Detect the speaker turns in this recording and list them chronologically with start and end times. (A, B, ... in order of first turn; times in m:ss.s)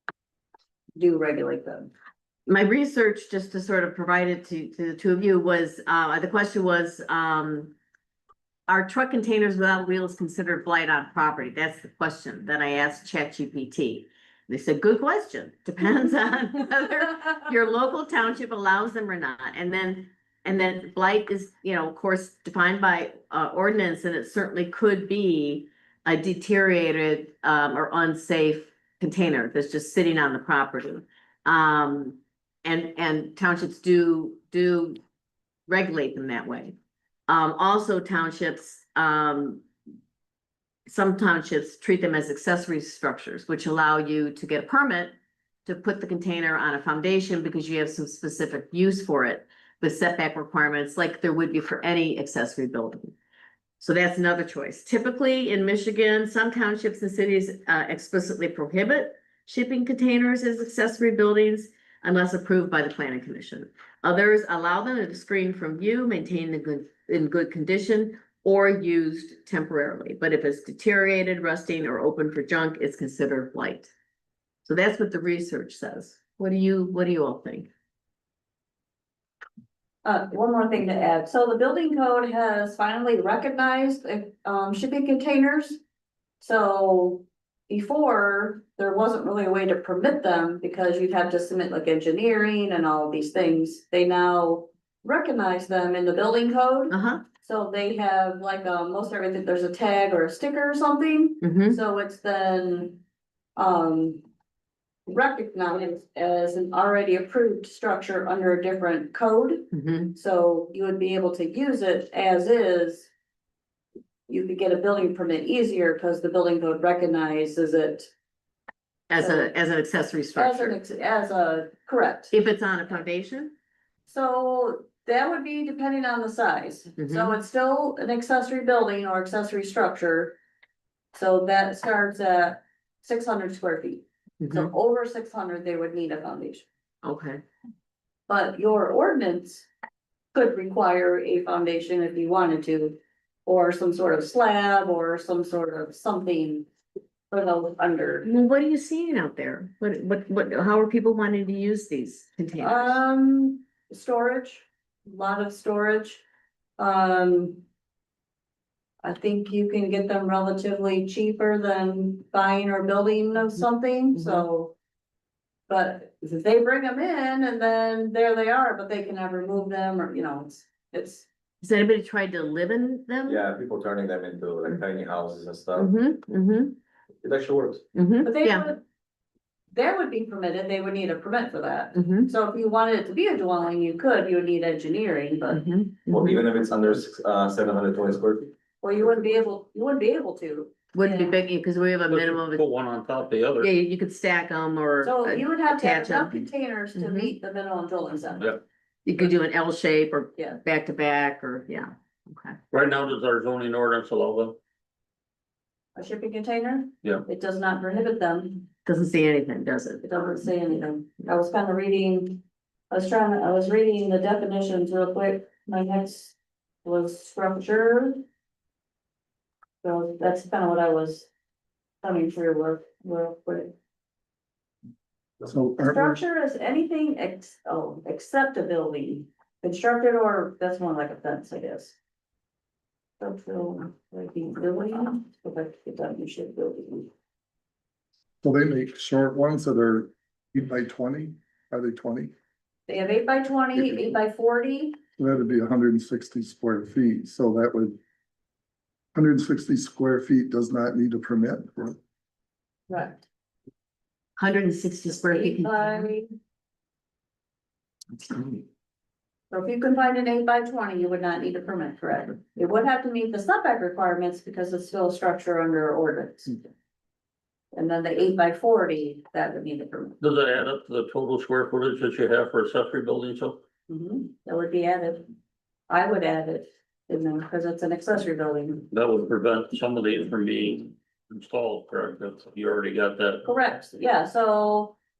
0:01.0-0:01.9 A
0:02.5-0:07.7 B
0:08.7-0:35.0 B
0:35.7-0:36.7 B
0:37.3-0:39.6 B
0:40.9-0:45.1 B
0:45.6-0:53.1 B
0:53.8-1:13.9 B
1:14.6-1:17.7 B
1:20.0-1:25.8 A
1:26.4-1:43.0 A
1:36.9-1:37.2 B
1:41.4-1:41.8 B
1:43.6-1:44.2 A
1:45.0-1:53.1 A
1:49.7-1:50.1 B
1:54.3-1:58.1 A
1:59.1-2:00.8 B
1:59.2-1:59.5 A
2:00.4-2:02.3 A
2:02.3-2:03.5 B
2:04.1-2:10.4 A
2:07.0-2:07.3 B
2:11.1-2:16.6 A
2:14.4-2:14.7 B
2:17.0-2:17.4 B
2:18.3-2:19.7 A
2:20.3-2:26.7 A
2:27.3-2:28.3 A
2:28.2-2:33.0 B
2:32.6-2:36.2 A
2:36.8-2:37.6 A
2:39.0-2:44.8 A
2:44.2-2:44.4 B
2:45.7-2:51.3 A
2:51.6-2:53.4 B
2:53.3-2:55.9 C
2:55.7-2:56.8 B
2:57.2-2:57.8 C
2:57.9-2:58.7 B
2:58.2-2:58.8 A
2:59.7-3:05.6 A
3:01.9-3:02.3 B
3:05.5-3:06.4 B
3:06.1-3:08.5 C
3:08.8-3:11.4 A
3:10.9-3:12.6 B
3:12.1-3:13.7 D
3:13.6-3:17.3 B
3:15.0-3:18.6 A
3:19.0-3:22.6 B
3:22.7-3:24.6 D
3:26.0-3:28.7 A
3:28.8-3:30.0 B
3:30.0-3:38.2 A
3:39.8-3:41.3 A
3:42.0-3:43.7 A
3:45.4-3:46.2 E
3:45.9-3:52.0 A
3:53.2-3:57.1 A
3:58.4-4:02.3 E
4:02.9-4:05.0 A
4:03.8-4:04.0 E
4:05.2-4:08.0 E
4:09.1-4:12.0 E
4:12.9-4:13.2 A
4:14.4-4:16.1 B
4:15.3-4:16.3 A
4:19.5-4:26.6 A
4:27.7-4:30.2 A
4:30.2-4:33.6 D
4:33.9-4:35.3 A
4:35.9-4:38.8 A
4:38.9-4:43.4 D
4:43.4-4:45.0 A